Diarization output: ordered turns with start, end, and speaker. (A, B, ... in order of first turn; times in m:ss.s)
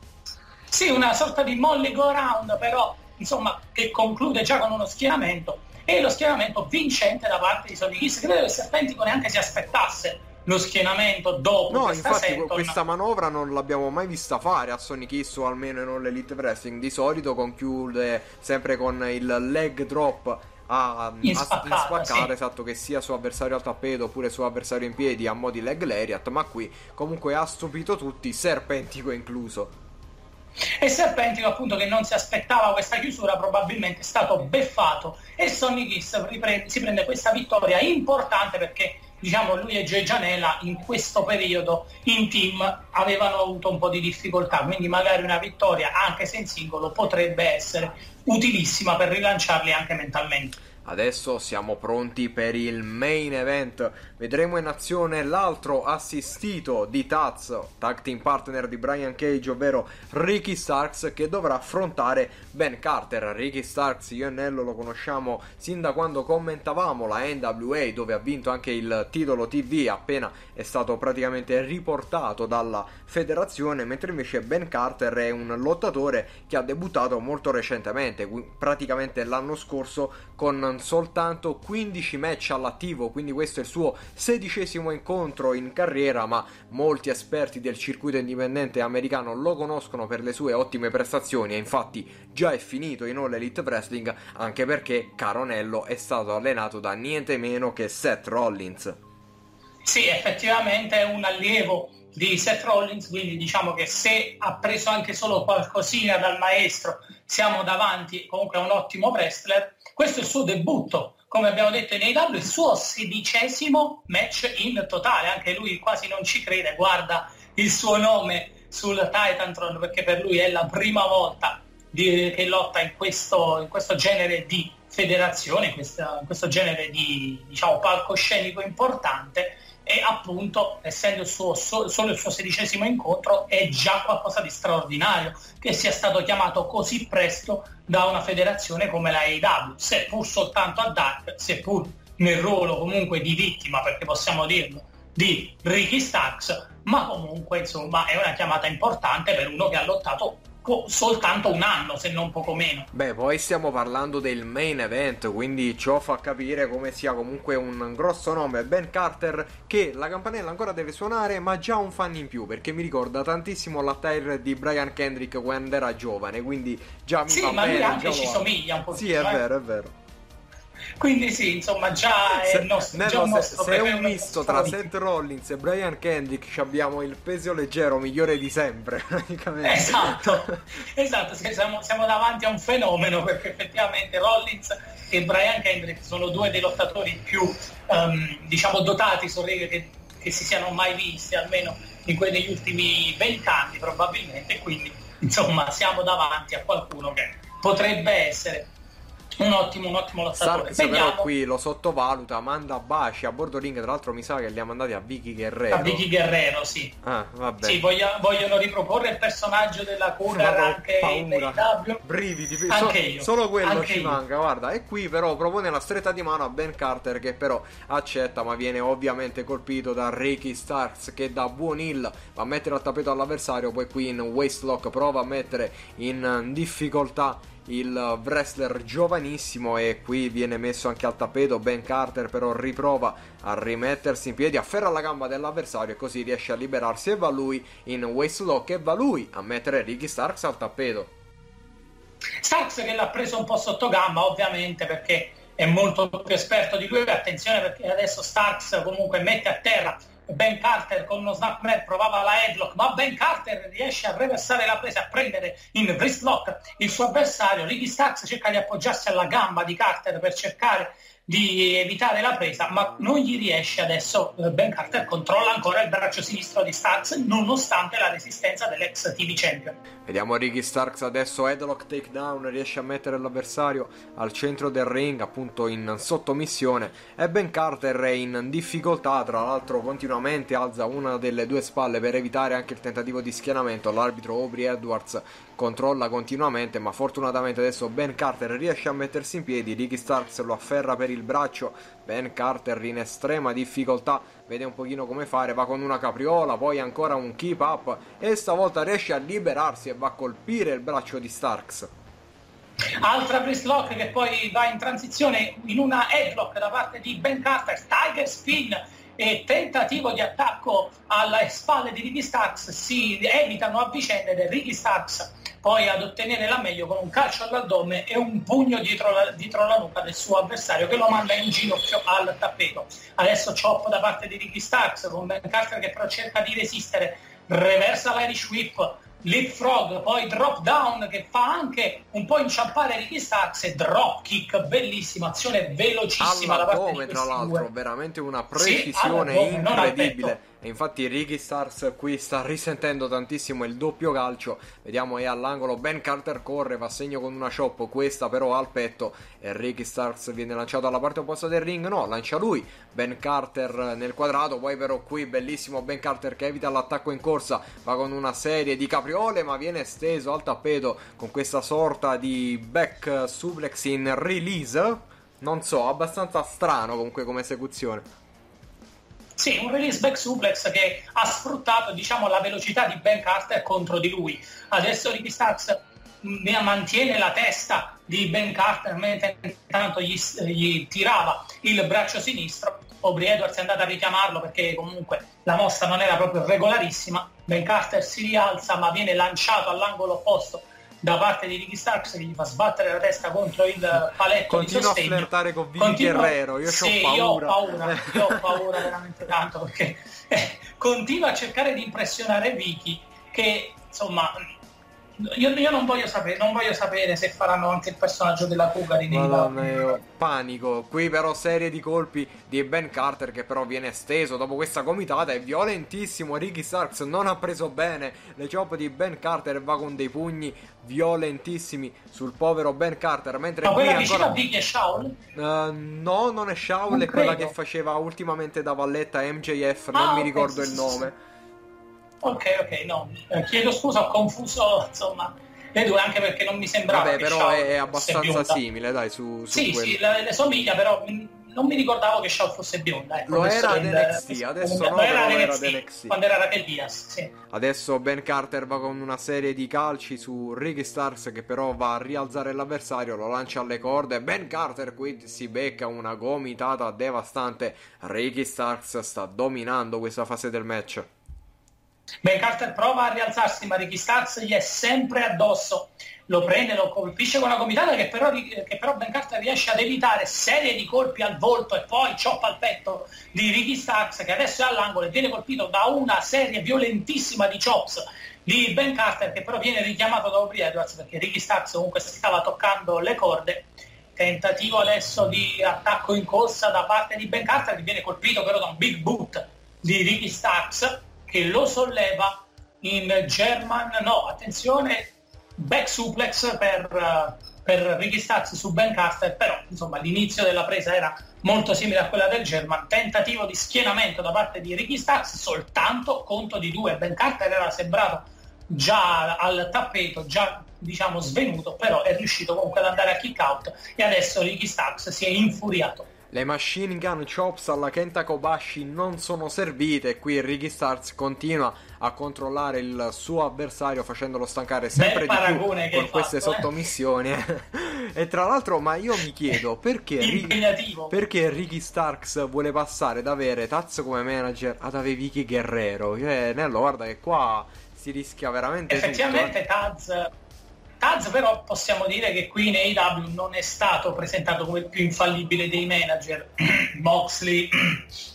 0:00.7-0:12.8 A
0:11.7-0:29.7 B
0:21.2-0:22.3 A
0:30.8-0:50.6 A
0:50.8-1:39.0 B
1:39.8-2:32.9 A
2:32.9-2:49.9 B
2:47.3-2:49.4 A
2:51.0-2:54.9 A
2:52.4-3:00.5 B
2:59.6-3:18.7 A
3:19.4-3:21.3 A
3:20.3-3:26.0 B
3:25.7-3:26.9 A
3:27.0-3:27.8 B
3:27.6-3:32.0 A
3:30.3-4:01.1 B
3:32.7-3:34.2 A
4:02.4-4:29.8 A
4:30.0-5:01.9 B
5:03.0-5:37.7 A
5:36.2-6:08.0 B
5:38.5-5:40.4 A
6:09.4-6:44.5 A
6:34.5-6:38.6 B
6:45.2-6:50.0 A
6:49.1-7:04.4 B
7:03.6-7:05.2 A
7:05.3-7:11.1 B
7:06.9-7:07.5 A
7:09.9-7:11.1 A
7:12.2-7:18.6 A
7:16.9-7:20.0 B
7:19.5-7:27.3 A
7:23.3-7:26.2 B
7:27.5-7:41.1 B
7:42.2-8:36.1 A
8:36.3-8:50.6 B
8:44.9-8:46.7 A
8:50.2-8:51.1 A
8:51.1-8:59.5 B
8:58.9-9:00.3 A
9:01.0-9:08.0 A